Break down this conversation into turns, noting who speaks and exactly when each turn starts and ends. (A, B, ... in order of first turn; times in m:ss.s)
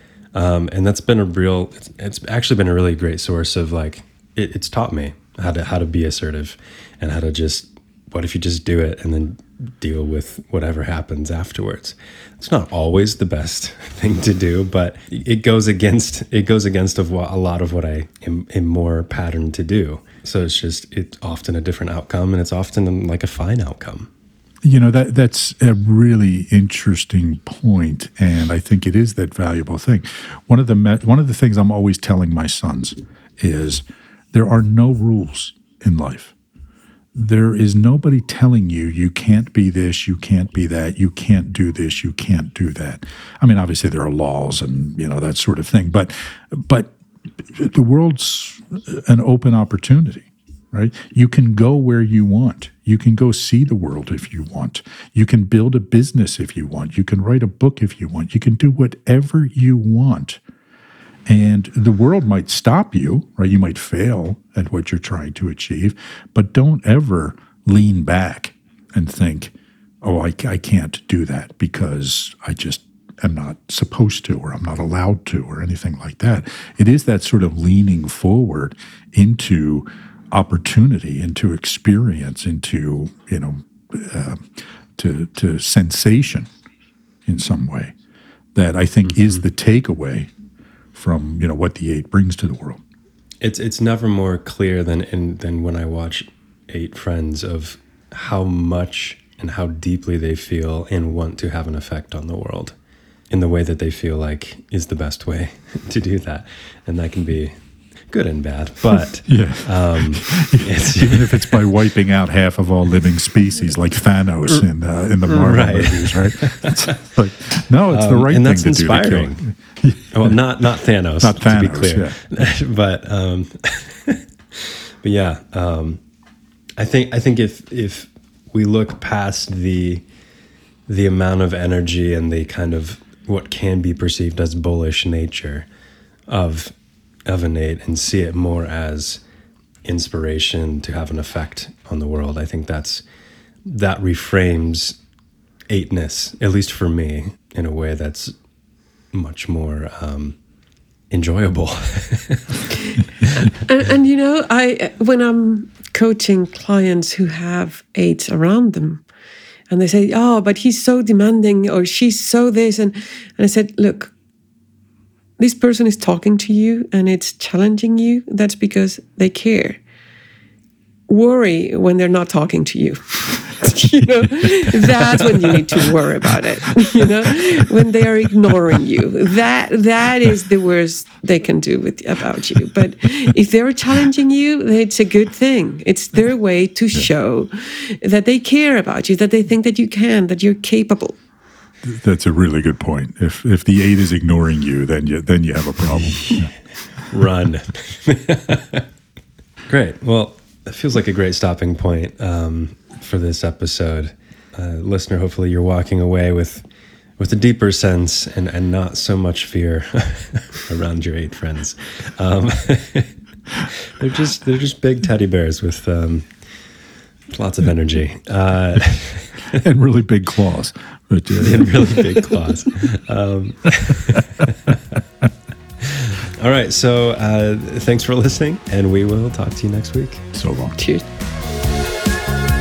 0:00.3-0:24.1 A
0:24.6-0:36.3 B
0:37.1-0:46.9 B
0:47.5-1:00.4 B
1:01.3-1:26.5 B
1:27.2-1:27.9 B
1:28.5-1:30.3 B
1:29.1-1:29.4 A
1:30.9-1:32.8 B
1:33.4-1:42.7 A
1:43.3-1:47.5 A
1:48.1-1:51.7 A
1:49.2-2:00.4 B
1:55.2-1:57.0 A
1:57.9-1:59.4 A
2:00.1-2:06.0 A
2:01.2-2:02.2 B
2:06.8-2:10.0 A
2:10.9-2:15.7 A
2:16.3-2:16.7 A
2:17.2-2:19.2 A
2:19.8-2:23.0 A
2:23.6-2:25.0 A
2:25.7-2:28.3 A
2:29.1-2:30.4 A
2:31.1-2:32.6 A
2:33.3-2:39.0 C
2:39.7-2:44.1 C
2:45.4-2:49.8 C
2:51.1-3:11.2 C
3:11.8-3:16.5 B
3:17.1-3:18.8 A
3:19.7-3:26.6 A
3:27.2-3:36.3 A
3:37.3-3:39.6 A
3:39.5-3:42.2 B
3:41.4-3:44.8 A
3:44.2-3:44.4 B
3:45.8-3:50.2 A
3:50.3-3:50.8 B
3:50.8-3:51.0 C